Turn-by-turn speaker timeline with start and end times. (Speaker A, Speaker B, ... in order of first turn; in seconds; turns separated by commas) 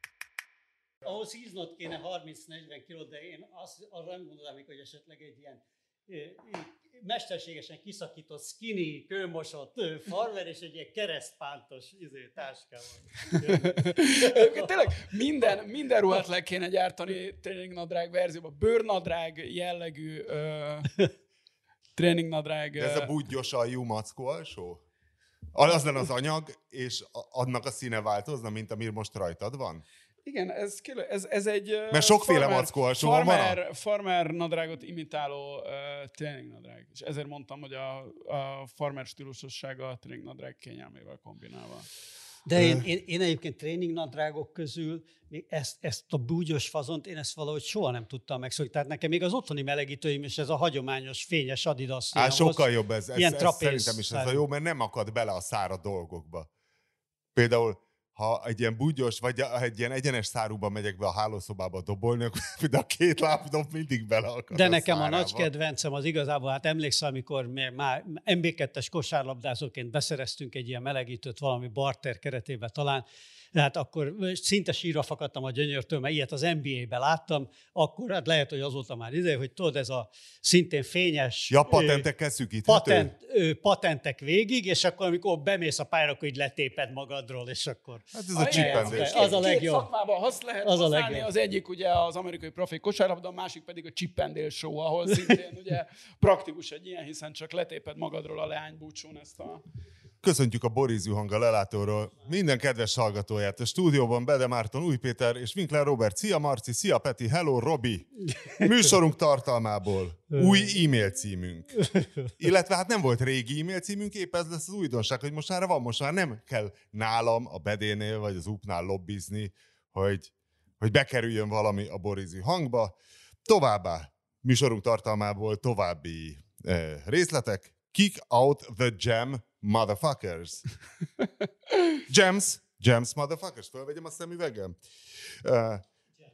Speaker A: 1.0-14.7, Speaker B: 13.5-21.0, Speaker B: 22.0-23.1, Speaker C: 22.8-24.8, Speaker C: 25.5-29.8, Speaker B: 30.2-41.9, Speaker C: 31.9-33.6, Speaker A: 42.5-54.4, Speaker C: 42.6-42.8, Speaker C: 52.1-56.5, Speaker C: 57.4-65.5, Speaker A: 64.5-82.1, Speaker C: 81.5-83.1, Speaker A: 82.7-89.9, Speaker C: 88.1-89.4, Speaker B: 88.4-99.6, Speaker A: 90.6-91.3, Speaker C: 100.2-130.6, Speaker C: 132.1-134.8, Speaker C: 135.4-135.8